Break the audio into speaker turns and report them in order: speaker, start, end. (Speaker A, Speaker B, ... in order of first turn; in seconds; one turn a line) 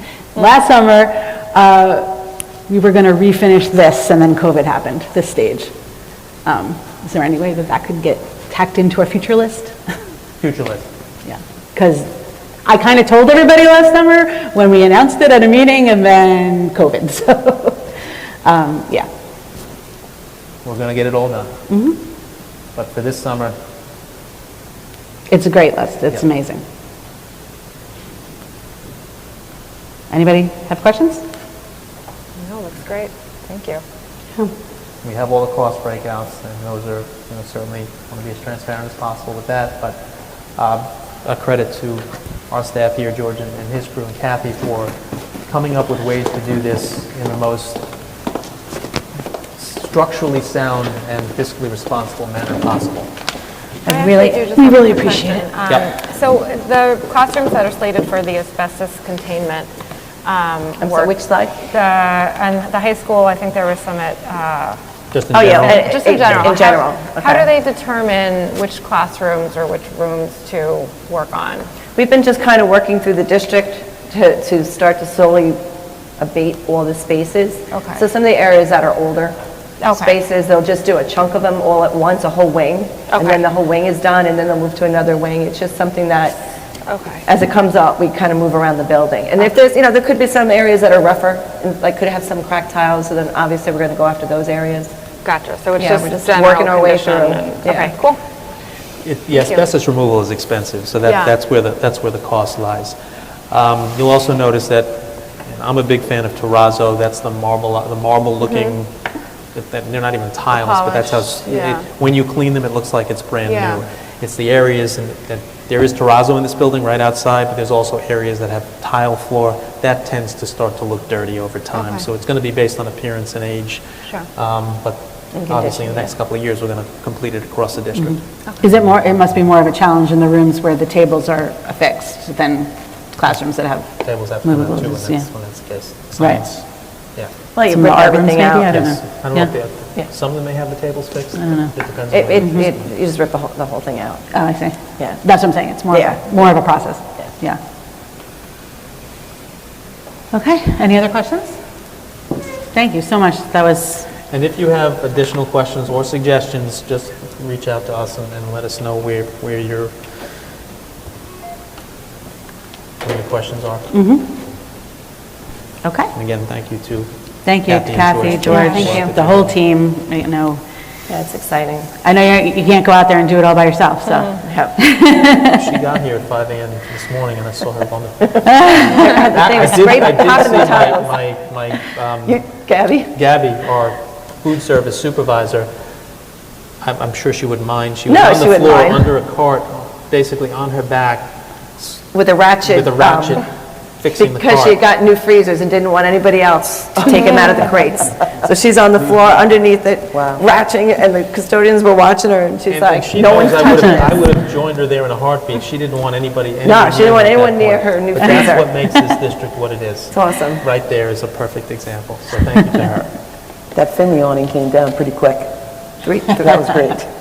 Speaker A: 0.3-5.7
Speaker A: 6.5-9.8
Speaker B: 10.4-10.9
Speaker A: 11.3-12.1
Speaker A: 12.7-17.9
Speaker A: 18.4-19.1
Speaker B: 20.6-21.5
Speaker A: 21.7-22.0
Speaker B: 22.7-23.6
Speaker A: 25.3-26.6
Speaker A: 30.1-31.2
Speaker C: 32.4-33.8
Speaker B: 35.0-40.0
Speaker B: 40.5-45.0
Speaker B: 45.5-47.9
Speaker B: 49.5-53.1
Speaker C: 53.9-59.7
Speaker A: 53.9-55.5
Speaker D: 53.9-54.3
Speaker C: 60.2-64.8
Speaker D: 60.8-61.6
Speaker B: 65.1-66.6
Speaker D: 65.3-67.5
Speaker C: 65.5-71.7
Speaker D: 71.9-75.6
Speaker D: 76.2-79.4
Speaker C: 77.7-78.0
Speaker C: 79.8-80.2
Speaker D: 79.9-86.4
Speaker C: 83.1-83.4
Speaker C: 86.9-87.3
Speaker D: 87.3-94.9
Speaker C: 95.2-98.2
Speaker D: 95.8-97.9
Speaker B: 99.0-103.0
Speaker C: 99.3-99.6
Speaker C: 101.0-101.3
Speaker B: 103.5-108.9
Speaker C: 108.4-108.8
Speaker B: 109.5-128.2
Speaker C: 110.5-111.8
Speaker C: 113.5-113.8
Speaker C: 121.7-122.0
Speaker D: 125.3-126.1
Speaker A: 128.0-135.3
Speaker B: 134.0-136.7
Speaker A: 136.2-136.4
Speaker D: 137.6-138.8
Speaker A: 137.7-139.5
Speaker B: 138.7-142.9
Speaker A: 141.4-141.7
Speaker D: 142.1-144.2
Speaker A: 142.4-142.7
Speaker A: 144.3-147.6
Speaker D: 145.9-146.3
Speaker A: 150.3-151.6
Speaker A: 152.7-154.1
Speaker B: 154.3-160.0
Speaker B: 163.0-163.9
Speaker A: 163.9-164.3
Speaker A: 165.8-166.1
Speaker B: 166.1-167.1
Speaker A: 167.5-170.6
Speaker B: 167.6-169.6
Speaker C: 168.5-168.9
Speaker D: 171.1-171.9
Speaker A: 172.0-175.6
Speaker D: 174.3-174.8
Speaker B: 175.5-182.5
Speaker A: 178.5-179.2
Speaker D: 178.6-181.2
Speaker D: 182.3-183.1
Speaker B: 183.1-185.7
Speaker B: 186.8-192.0
Speaker D: 188.1-189.1
Speaker D: 192.1-193.4
Speaker B: 192.6-194.8
Speaker D: 194.2-204.2
Speaker E: 200.1-200.4
Speaker B: 202.7-213.1
Speaker D: 206.6-208.7
Speaker D: 210.1-210.6
Speaker E: 213.7-217.1